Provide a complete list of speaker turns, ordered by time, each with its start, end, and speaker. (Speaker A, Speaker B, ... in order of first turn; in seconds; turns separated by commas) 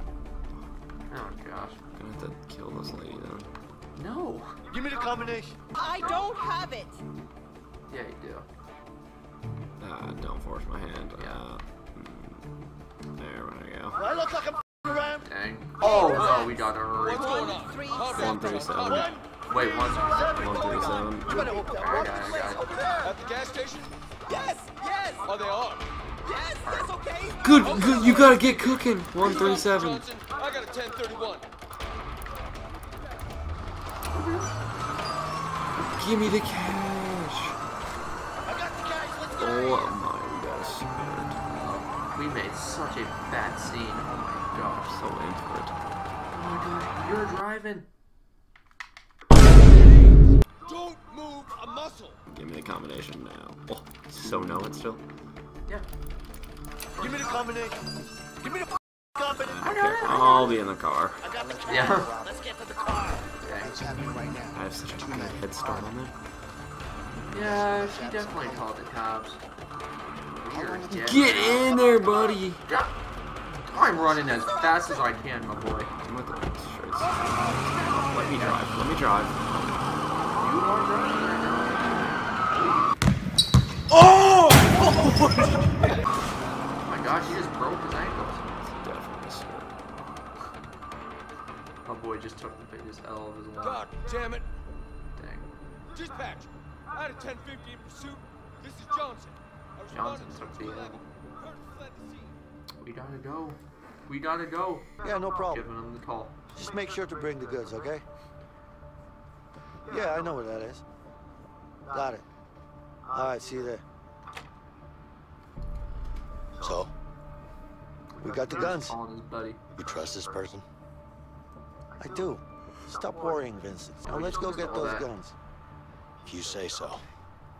Speaker A: 1.1-1.8, Speaker B: 1.9-3.5, Speaker A: 3.9-4.6, Speaker C: 4.7-5.6, Speaker D: 5.7-7.0, Speaker A: 6.0-6.3, Speaker A: 7.9-8.4, Speaker B: 9.8-12.4, Speaker A: 11.2-11.4, Speaker B: 13.2-14.0, Speaker C: 13.9-15.2, Speaker A: 15.2-17.7, Speaker D: 15.8-18.5, Speaker E: 16.1-18.9, Speaker B: 18.1-19.2, Speaker C: 18.8-23.1, Speaker A: 19.4-20.7, Speaker B: 19.9-21.6, Speaker D: 21.6-22.9, Speaker A: 21.6-22.7, Speaker E: 23.0-23.9, Speaker D: 24.3-25.2, Speaker E: 24.8-25.9, Speaker D: 26.2-28.0, Speaker A: 26.6-27.0, Speaker B: 27.4-30.1, Speaker E: 27.6-28.4, Speaker E: 29.2-31.4, Speaker A: 34.1-34.5, Speaker B: 35.8-37.6, Speaker C: 38.4-39.9, Speaker B: 39.4-41.4, Speaker A: 41.5-45.0, Speaker B: 44.9-45.8, Speaker A: 46.3-47.9, Speaker E: 50.7-52.1, Speaker D: 51.0-51.5, Speaker B: 52.3-55.0, Speaker A: 56.9-57.5, Speaker C: 57.0-57.8, Speaker C: 58.4-60.2, Speaker B: 59.3-61.3, Speaker A: 59.6-60.6, Speaker C: 61.2-63.2, Speaker F: 61.4-62.4, Speaker A: 61.6-62.1, Speaker A: 63.4-63.9, Speaker F: 63.6-65.5, Speaker B: 64.5-66.1, Speaker A: 67.3-69.4, Speaker F: 67.5-68.6, Speaker A: 70.3-71.7, Speaker B: 70.8-72.6, Speaker A: 72.7-72.9, Speaker A: 73.5-75.9, Speaker B: 76.0-79.5, Speaker A: 77.9-78.7, Speaker A: 80.3-83.0, Speaker A: 86.8-88.5, Speaker B: 88.5-89.8, Speaker A: 91.8-93.9, Speaker E: 93.6-94.4, Speaker A: 95.2-95.5, Speaker E: 95.9-102.3, Speaker A: 99.9-101.0, Speaker A: 102.8-106.3, Speaker C: 105.0-105.6, Speaker C: 106.5-108.0, Speaker C: 109.9-110.8, Speaker C: 111.9-112.2, Speaker C: 113.1-113.8, Speaker G: 116.6-116.9, Speaker A: 118.2-119.6, Speaker C: 118.2-119.0, Speaker G: 119.8-120.6, Speaker C: 122.0-125.3, Speaker A: 124.0-125.1, Speaker G: 126.2-127.0